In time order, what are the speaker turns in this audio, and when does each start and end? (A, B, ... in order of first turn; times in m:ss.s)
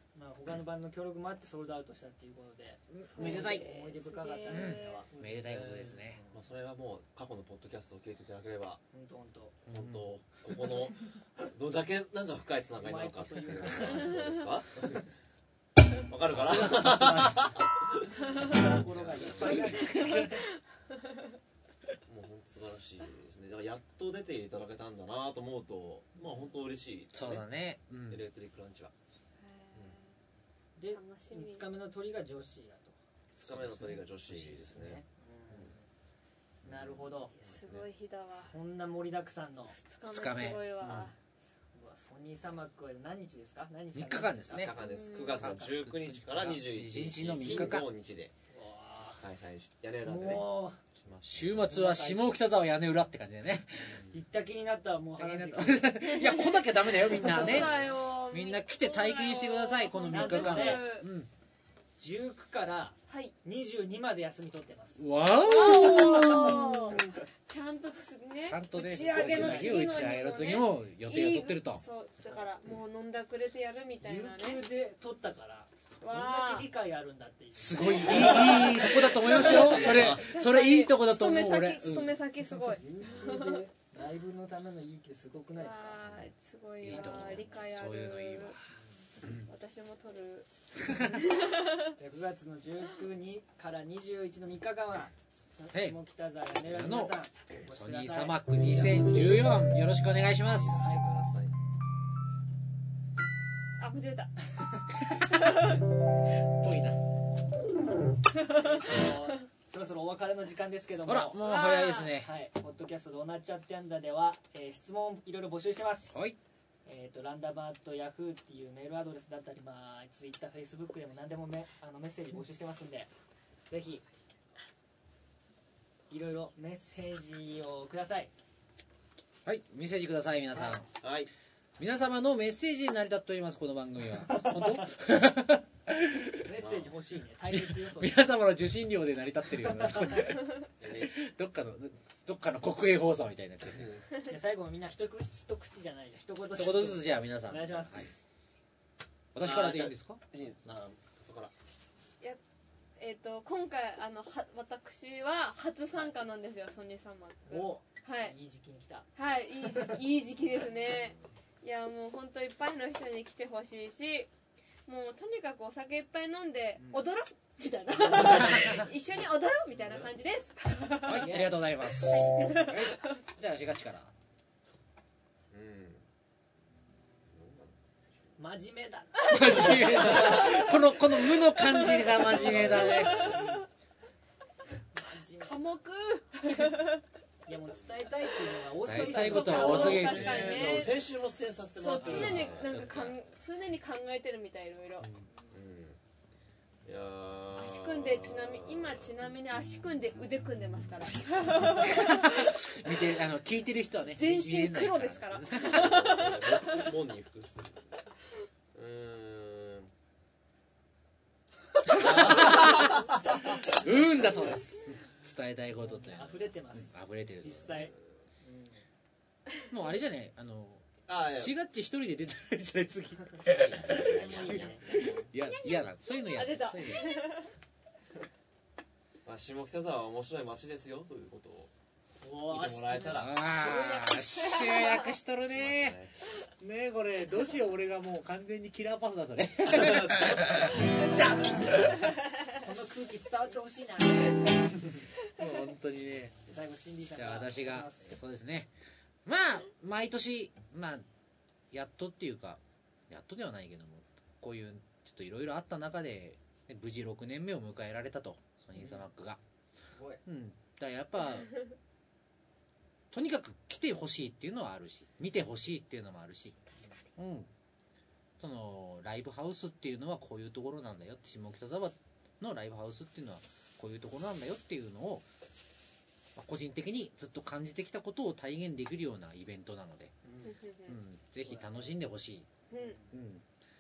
0:00.1-0:06.3 A
0:02.9-0:03.7 B
0:03.1-0:05.0 C
0:04.5-0:06.2 B
0:05.4-0:08.8 D
0:08.9-0:09.6 A
0:09.6-0:15.0 D
0:09.7-0:10.1 B
0:12.8-0:14.2 A
0:13.8-0:14.5 C
0:16.0-0:19.9 D
0:16.3-0:17.6 B
0:18.3-0:20.4 A
0:19.3-0:21.2 C
0:19.6-0:20.4 B
0:22.0-0:27.4 D
0:27.1-0:28.2 B
0:28.1-0:28.9 D
0:29.4-0:30.1 C
0:30.8-0:33.0 A
0:30.9-0:31.7 C
0:33.3-0:35.7 D
0:33.5-0:34.0 B
0:33.6-0:35.8 A
0:36.6-0:37.9 D
0:36.6-0:37.4 A
0:37.3-0:38.5 C
0:38.3-0:39.8 A
0:39.8-0:41.1 C
0:40.1-0:41.1 B
0:40.8-0:41.1 D
0:41.5-0:44.8 A
0:43.9-0:44.8 B
0:44.5-0:48.3 D
0:44.8-0:45.4 C
0:45.3-0:46.0 A
0:45.8-0:47.9 B
0:48.5-0:49.2 A
0:49.1-0:51.8 D
0:50.0-0:50.8 A
0:51.2-0:53.9 B
0:51.6-0:52.3 A
0:53.9-0:54.2 D
0:54.1-0:56.3 A
0:55.2-1:01.3 B
0:56.0-1:01.1 C
0:57.0-0:57.9 A
1:00.1-1:00.9 A
1:02.0-1:05.0 A
1:03.1-1:03.3 C
1:05.0-1:07.0 B
1:05.4-1:14.6 C
1:06.1-1:06.6 A
1:08.4-1:11.8 B
1:08.8-1:10.1 A
1:14.0-1:19.4 A
1:16.0-1:16.7 C
1:17.6-1:22.2 B
1:18.0-1:23.6 C
1:19.1-1:20.3 D
1:22.5-1:26.1 A
1:23.0-1:23.3 D
1:25.5-1:28.6 C
1:26.8-1:28.6 B
1:28.7-1:29.0 A
1:29.2-1:29.5 B
1:29.2-1:31.9 C
1:30.8-1:31.2 B
1:32.0-1:39.0 A
1:35.7-1:36.0 B
1:36.7-1:40.8 B
1:38.5-1:39.6 D
1:40.4-1:41.5 D
1:40.8-1:41.0 A
1:43.8-1:44.3 C
1:45.1-1:45.6 B
1:45.2-1:45.8 C
1:46.5-1:47.0 B
1:48.3-1:49.4 C
1:48.4-1:51.5 A
1:51.0-1:52.3 B
1:51.4-1:52.2 C
1:52.1-1:56.2 A
1:56.1-1:56.4 B
1:56.8-2:03.1 A
2:03.7-2:04.0 A
2:06.1-2:08.3 A
2:09.4-2:10.9 B
2:10.9-2:11.3 D
2:11.8-2:16.5 B
2:16.4-2:18.3 A
2:16.6-2:16.9 D
2:17.5-2:23.9 B
2:20.8-2:21.2 D
2:23.7-2:24.0 D
2:24.2-2:28.1 A
2:26.5-2:28.1 B
2:29.3-2:30.2 B
2:29.4-2:31.5 D
2:33.0-2:38.3 C
2:35.9-2:36.2 A
2:37.5-2:39.1 A
2:39.2-2:44.3 C
2:44.9-2:53.2 C
2:46.8-2:47.1 A
2:48.0-2:48.8 A
2:48.3-2:48.8 B
2:49.7-2:50.1 D
2:51.0-2:54.1 B
2:51.1-2:51.6 A
2:55.5-2:56.0 D
2:57.3-2:58.4 D
2:58.4-3:00.7 A
2:59.2-3:03.3 B
3:00.1-3:00.5 D
3:00.2-3:00.6 C
3:01.4-3:03.6 C
3:02.3-3:03.5 D
3:03.1-3:03.7 A
3:04.9-3:05.7 A
3:05.4-3:07.0 C
3:07.4-3:10.6 A
3:08.8-3:10.8 B
3:08.9-3:11.1 C
3:09.7-3:13.2 D
3:11.8-3:15.1 C
3:12.0-3:12.8 B
3:15.5-3:16.0 D
3:16.8-3:19.1 D
3:17.5-3:22.9 C
3:21.8-3:25.9 B
3:24.1-3:26.9 C
3:25.6-3:28.0 D
3:28.7-3:29.9 D
3:31.8-3:33.3 D
3:31.9-3:37.9 B
3:35.8-3:38.8 A
3:37.7-3:38.0 D
3:39.7-3:47.2 B
3:41.1-3:41.5 D
3:43.4-3:45.3 D
3:44.0-3:45.1 A
3:45.4-3:47.5 C
3:49.2-3:51.7 D
3:52.2-3:54.2 A
3:52.4-3:53.6 D
3:53.1-3:56.0 B
3:53.6-3:55.1 C
3:55.5-3:56.2 D
3:56.6-4:02.1 B
3:59.7-4:00.8 D
4:02.5-4:04.4 A
4:05.3-4:06.4 B
4:06.4-4:08.2 A
4:07.2-4:08.7 B
4:09.2-4:11.0 B
4:11.7-4:19.4 B
4:18.8-4:19.0 A
4:19.9-4:20.2 A
4:20.2-4:21.6 B
4:23.1-4:26.6 B
4:27.2-4:27.5 B
4:28.4-4:35.2 B
4:36.4-4:40.1 B
4:40.2-4:40.6 A
4:40.5-4:41.0 C
4:40.8-4:42.5 B
4:41.4-4:41.9 A
4:42.7-4:43.0 C
4:42.7-4:43.1 A
4:43.1-4:43.4 B